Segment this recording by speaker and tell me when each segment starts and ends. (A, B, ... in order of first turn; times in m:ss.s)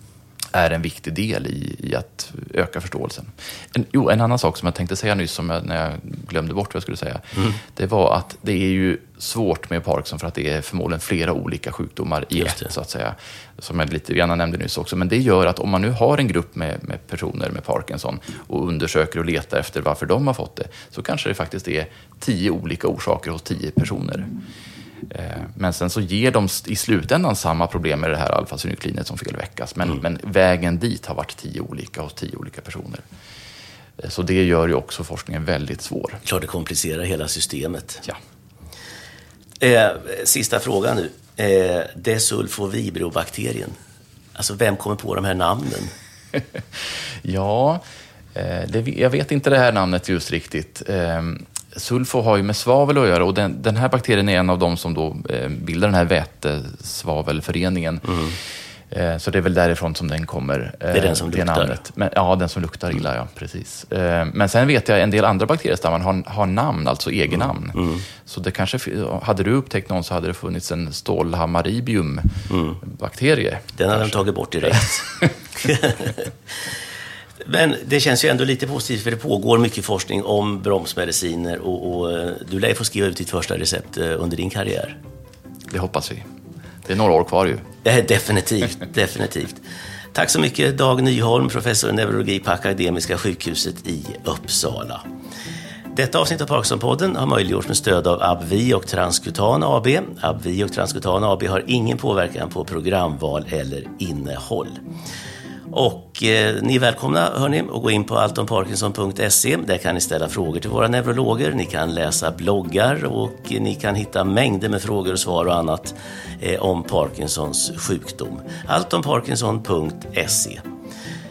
0:00.5-0:24.3 A
0:12.4-0:12.7 B
0:25.1-0:33.0 A
0:34.0-0:36.2 A
0:36.2-0:38.0 B
0:39.6-0:43.8 B
0:44.4-0:45.9 B
0:46.3-0:47.8 A
0:48.4-0:58.4 A
0:58.1-0:58.4 B
0:58.9-1:15.3 A
1:00.9-1:01.8 B
1:07.7-1:08.0 B
1:12.5-1:12.8 B
1:13.8-1:16.3 B
1:17.4-1:25.0 B
1:25.7-1:26.3 A
1:26.8-1:27.7 A
1:27.8-1:29.6 B
1:30.1-1:35.0 B
1:35.9-1:44.8 B
1:45.7-2:00.6 B